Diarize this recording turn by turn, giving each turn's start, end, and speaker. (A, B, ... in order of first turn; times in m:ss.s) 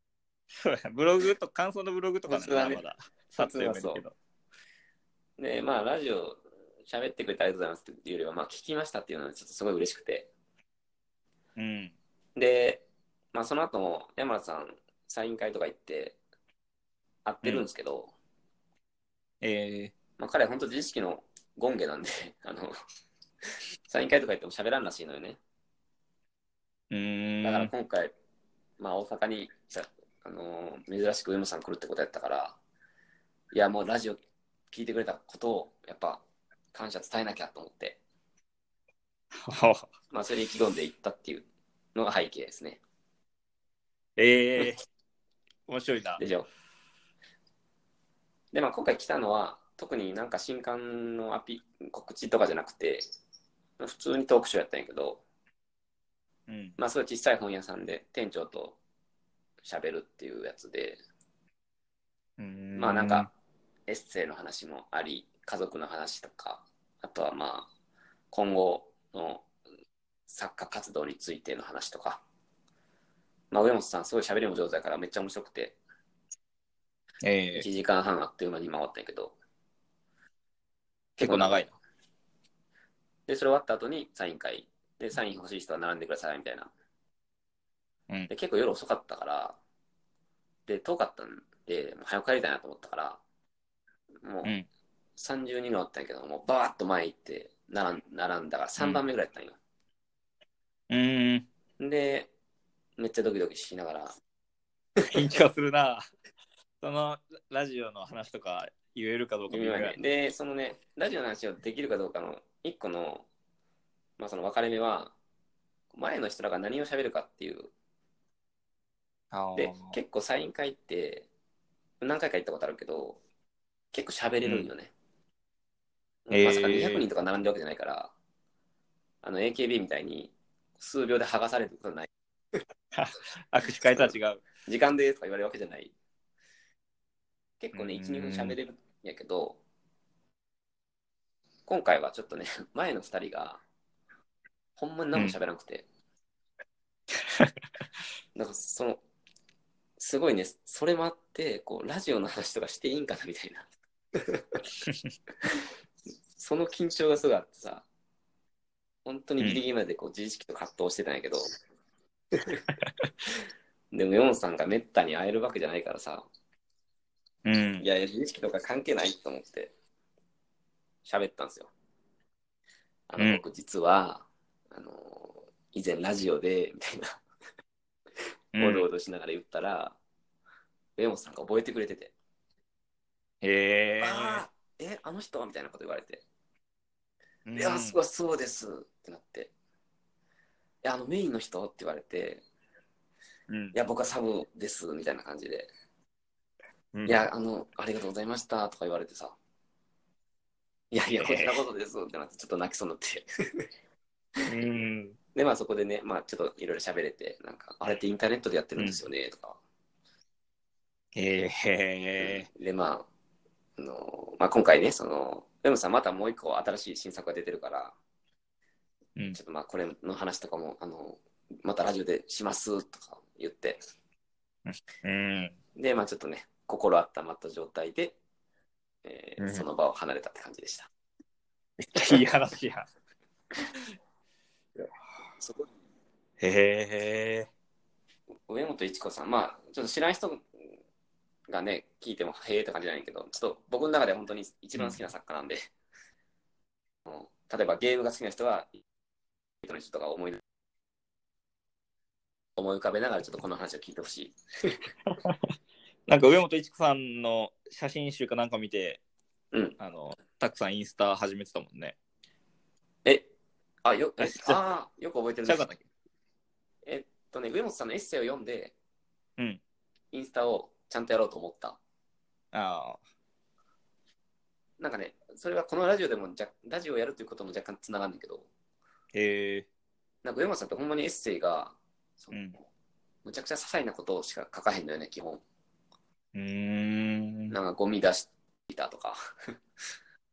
0:00.6-0:04.2 A
0:02.3-0:02.8 B
0:03.3-0:04.0 B
0:05.4-0:10.3 B
0:11.6-0:12.0 A
0:12.4-0:16.2 B
0:17.2-0:18.1 B
0:19.4-0:19.9 A
0:20.2-0:22.7 B
0:23.9-0:25.4 B
0:26.9-0:27.7 A
0:27.4-0:28.1 B
0:28.8-0:32.6 B
0:33.5-0:34.2 B
0:34.7-0:36.2 B
0:36.7-0:38.0 B
0:39.4-0:39.9 A
0:40.1-0:42.8 B
0:44.2-0:44.8 A
0:45.7-0:46.2 A
0:46.2-0:46.5 B
0:48.5-0:53.1 B
0:53.8-0:55.2 B
0:56.5-0:56.8 A
0:56.8-0:58.8 B
0:59.6-1:01.0 B
1:02.4-1:03.3 A
1:02.8-1:03.3 B
1:03.9-1:07.7 B
1:08.3-1:09.5 B
1:10.3-1:12.2 B
1:13.5-1:15.8 B
1:17.2-1:17.7 A
1:17.6-1:19.4 B
1:21.2-1:21.8 A
1:21.2-1:21.6 B
1:23.3-1:26.7 B
1:28.3-1:29.6 B
1:30.7-1:33.2 B
1:34.2-1:34.5 B
1:35.2-1:39.6 B
1:40.9-1:41.5 A
1:41.8-1:42.3 B
1:43.0-1:44.2 B
1:45.1-1:46.0 A
1:46.8-1:50.0 A
1:49.5-1:53.3 B
1:54.2-1:55.2 B
1:55.9-1:57.7 B
1:59.3-2:00.0 A
1:59.6-2:01.3 B
2:02.0-2:03.2 B
2:03.9-2:04.9 B
2:04.4-2:04.7 A
2:06.3-2:08.1 B
2:06.3-2:07.0 A
2:09.2-2:12.1 B
2:12.9-2:14.4 A
2:13.9-2:14.1 B
2:14.7-2:15.9 B
2:17.6-2:19.6 B
2:17.7-2:18.6 A
2:21.7-2:23.6 B
2:24.8-2:25.9 B
2:28.4-2:29.0 B
2:30.0-2:34.6 B
2:36.4-2:37.8 B
2:39.0-2:41.5 B
2:42.3-2:42.6 B
2:43.9-2:46.3 B
2:47.4-2:47.9 A
2:47.8-2:49.7 B
2:51.0-2:51.7 B
2:53.1-2:57.2 B
2:53.2-2:53.4 A
2:58.5-2:58.9 A
2:58.6-3:00.0 B
3:01.0-3:02.1 B
3:03.4-3:04.5 A
3:04.0-3:06.2 B
3:07.5-3:08.0 A
3:07.6-3:09.5 B
3:10.8-3:12.4 B
3:13.5-3:13.8 A
3:13.7-3:15.7 B
3:16.9-3:17.2 A
3:17.1-3:19.4 B
3:20.9-3:23.7 B
3:21.2-3:21.6 A
3:24.5-3:25.2 A
3:25.4-3:29.6 B
3:31.2-3:32.5 A
3:32.2-3:33.1 B
3:33.8-3:38.0 B
3:39.3-3:43.8 B
3:44.7-3:45.6 A
3:45.8-3:48.2 B
3:49.0-3:50.9 B
3:49.4-3:49.7 A
3:51.8-3:52.9 A
3:52.0-3:52.3 B
3:55.4-3:55.7 B
3:56.4-3:57.5 A
3:58.5-4:00.4 B
4:01.5-4:05.7 B
4:07.1-4:08.8 B
4:09.6-4:10.4 B
4:12.6-4:14.8 B
4:15.1-4:15.4 A
4:16.1-4:19.0 A
4:19.8-4:22.0 A
4:23.8-4:25.6 B
4:24.2-4:24.6 A
4:25.4-4:25.8 A
4:26.8-4:28.8 B
4:30.1-4:31.8 B
4:32.5-4:33.0 A
4:34.8-4:38.5 B
4:39.1-4:39.7 A
4:40.2-4:42.4 B
4:42.3-4:42.6 A
4:43.2-4:45.4 B
4:46.4-4:47.6 A
4:47.5-4:49.2 B